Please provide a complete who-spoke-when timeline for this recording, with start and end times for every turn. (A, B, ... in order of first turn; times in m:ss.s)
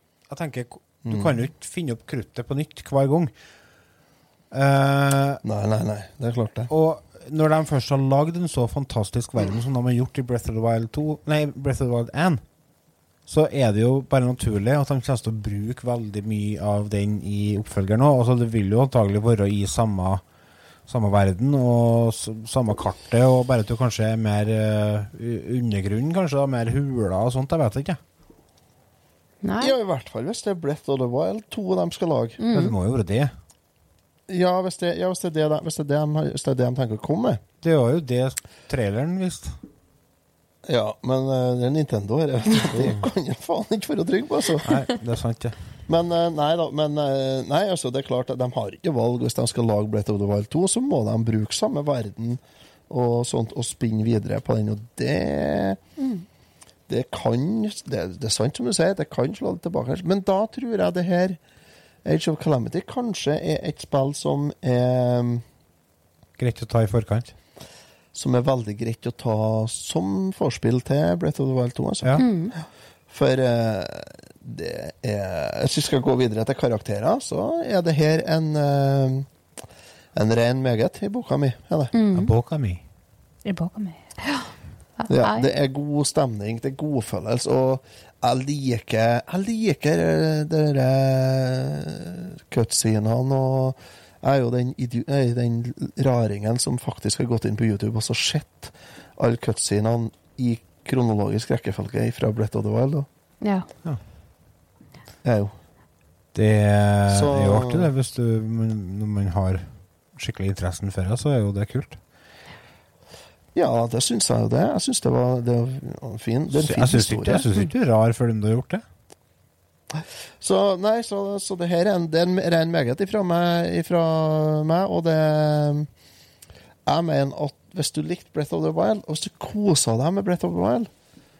0:00.3-0:03.3 A
0:01.0-0:01.4 B
0:04.5-0:05.4 A
0:05.4-0:06.7 B
0:06.7-0:12.4 A
0:13.3-0:20.2 A
0:20.9-0:28.0 A
0:29.4-0:29.7 C
0:29.6-0:32.4 B
0:32.4-0:32.7 C
0:32.5-0:33.3 A
0:34.3-0:37.4 B
0:37.6-0:39.6 A
0:40.6-0:44.7 B
0:42.7-0:43.0 A
0:44.6-0:45.6 A
0:45.9-0:55.8 B
0:56.0-0:56.2 C
0:56.9-1:01.4 B
1:02.0-1:05.4 B
1:06.4-1:07.3 A
1:08.1-1:12.2 B
1:12.2-1:12.5 C
1:13.1-1:19.3 B
1:20.1-1:21.9 B
1:21.9-1:22.3 C
1:22.1-1:22.8 A
1:23.4-1:25.5 C
1:25.1-1:43.1 B
1:43.4-1:43.7 C
1:45.2-1:45.5 B
1:46.3-1:52.0 A
1:47.1-1:47.9 B
1:53.5-1:57.5 B
1:56.5-1:58.8 A
1:59.9-2:05.9 B
2:06.8-2:10.9 B